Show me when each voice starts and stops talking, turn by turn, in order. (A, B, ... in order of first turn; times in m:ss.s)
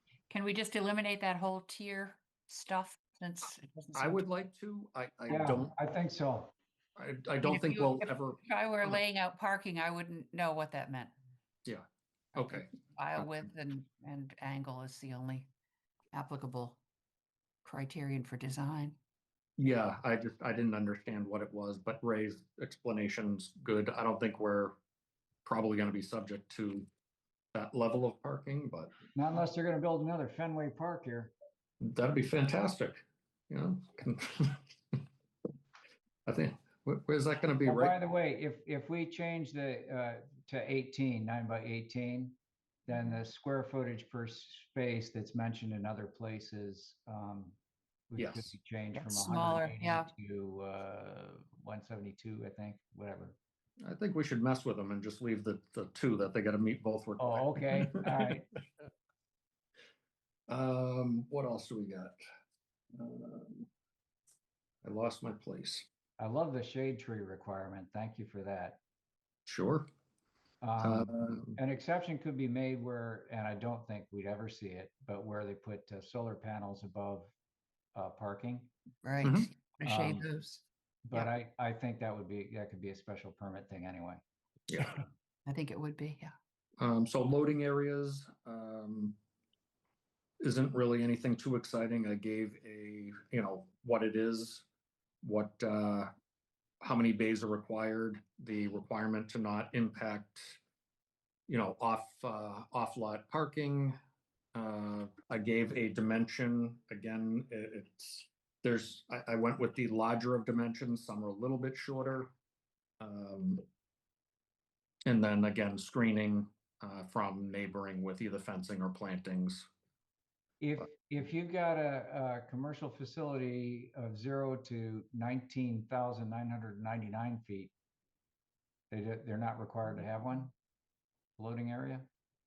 0:00.3-0:04.2 A
0:03.9-0:05.7 B
0:05.3-0:06.5 C
0:07.0-0:09.0 B
0:07.4-0:11.1 A
0:12.3-0:15.5 A
0:12.4-0:13.3 B
0:16.1-0:16.8 A
0:17.6-0:19.0 A
0:19.6-0:24.8 B
0:25.4-0:26.9 B
0:27.5-0:28.9 B
0:29.1-0:31.3 C
0:31.8-0:34.6 B
0:36.2-0:38.0 B
0:37.6-0:47.6 C
0:48.1-0:53.4 C
0:48.2-0:48.5 B
0:48.9-0:50.1 A
0:53.8-0:58.3 B
0:57.2-0:58.5 C
1:00.5-1:02.2 B
1:02.9-1:03.6 B
1:04.8-1:05.9 B
1:06.2-1:08.8 C
1:09.4-1:09.9 B
1:10.6-1:17.3 C
1:10.8-1:11.6 B
1:17.9-1:18.7 C
1:19.0-1:21.3 A
1:19.2-1:19.5 B
1:19.8-1:20.2 C
1:21.0-1:24.2 C
1:24.7-1:25.0 B
1:25.4-1:26.3 A
1:26.8-1:29.2 B
1:30.4-1:34.6 B
1:35.2-1:36.1 B
1:36.8-1:40.6 B
1:41.5-1:44.0 B
1:44.5-1:52.3 B
1:53.0-1:53.6 B
1:55.0-1:59.7 B
2:00.6-2:07.7 C
2:08.9-2:10.5 C
2:11.4-2:12.1 C